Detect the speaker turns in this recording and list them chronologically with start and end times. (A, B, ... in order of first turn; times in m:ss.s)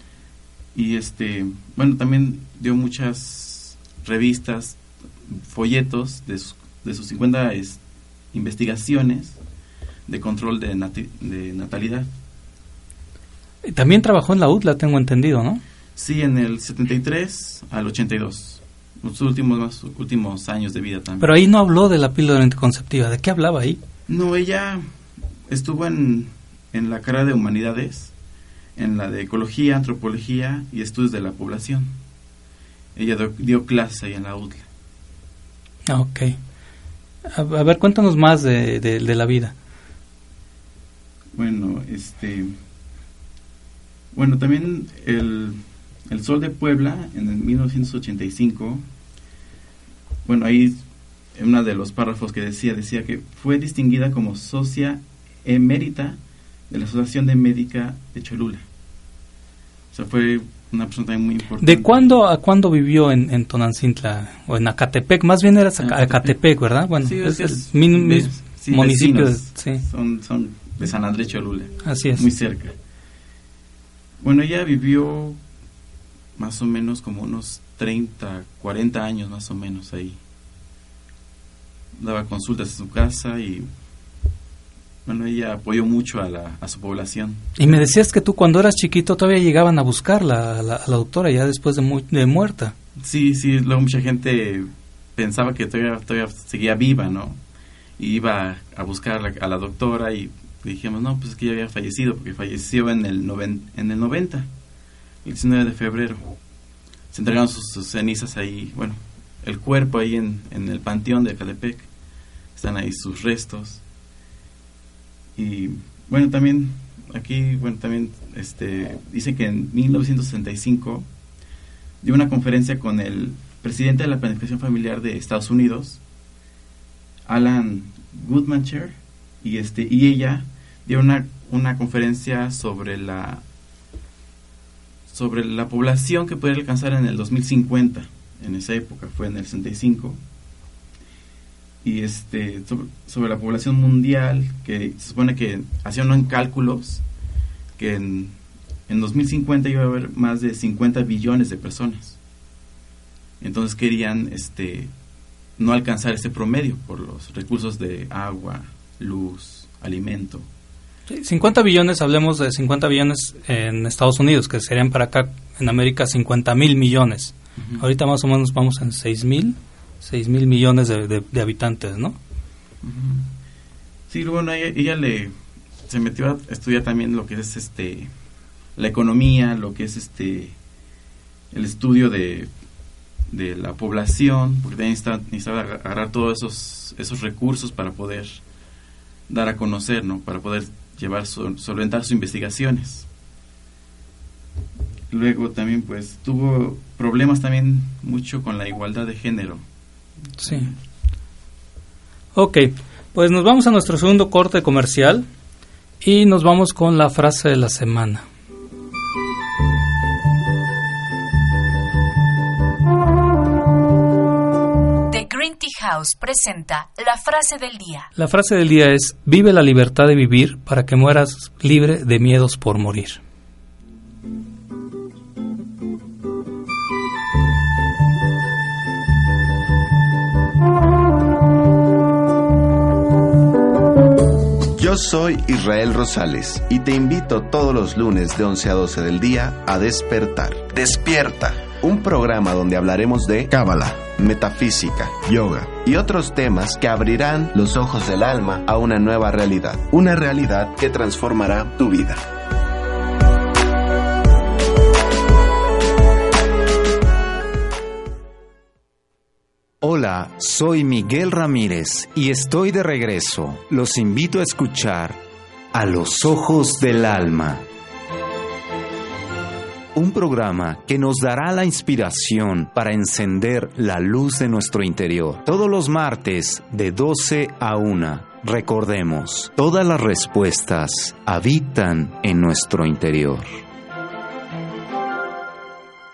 0:00.7-0:07.8 A
0:08.3-0:09.4 A
0:10.1-0:12.1 A
0:13.6-0:15.6 B
0:16.0-0:21.3 A
0:21.2-0:23.8 B
0:24.1-0:24.8 A
0:25.5-0:28.1 A
0:28.8-0:31.9 A
0:32.9-0:34.6 A
0:35.9-0:36.4 B
0:37.3-0:39.5 B
0:41.3-0:42.5 A
0:44.1-0:48.8 A
0:50.2-0:50.8 A
0:51.4-0:56.2 A
0:56.7-0:58.6 A
0:59.9-1:02.2 A
1:01.6-1:09.8 B
1:05.8-1:06.4 A
1:06.9-1:12.8 A
1:11.8-1:12.3 B
1:14.2-1:15.4 A
1:16.4-1:20.2 A
1:22.0-1:23.7 A
1:25.0-1:27.8 A
1:27.6-1:32.7 B
1:33.0-1:37.4 A
1:38.0-1:44.5 A
1:45.2-1:46.3 A
1:47.1-1:51.9 A
1:52.6-1:53.8 A
1:55.4-2:01.1 A
2:02.0-2:06.0 A
2:07.2-2:13.4 A
2:15.1-2:20.2 A
2:21.8-2:27.0 A
2:27.8-2:28.3 A
2:28.9-2:32.2 A
2:33.4-2:34.9 A
2:35.6-2:40.4 A
2:41.1-2:52.2 B
2:47.6-2:47.8 A
2:52.8-2:53.3 A
2:54.1-2:55.3 A
2:55.8-2:58.1 A
2:58.8-3:00.6 A
3:01.5-3:02.5 A
3:03.3-3:08.4 A
3:09.3-3:13.1 A
3:15.1-3:19.6 A
3:20.4-3:20.7 B
3:20.4-3:20.7 A
3:22.3-3:25.3 B
3:26.0-3:28.2 B
3:35.1-3:38.1 C
3:38.2-3:43.2 B
3:54.8-4:12.2 D
4:19.8-4:25.2 E
4:25.7-4:27.6 E
4:29.9-4:43.6 E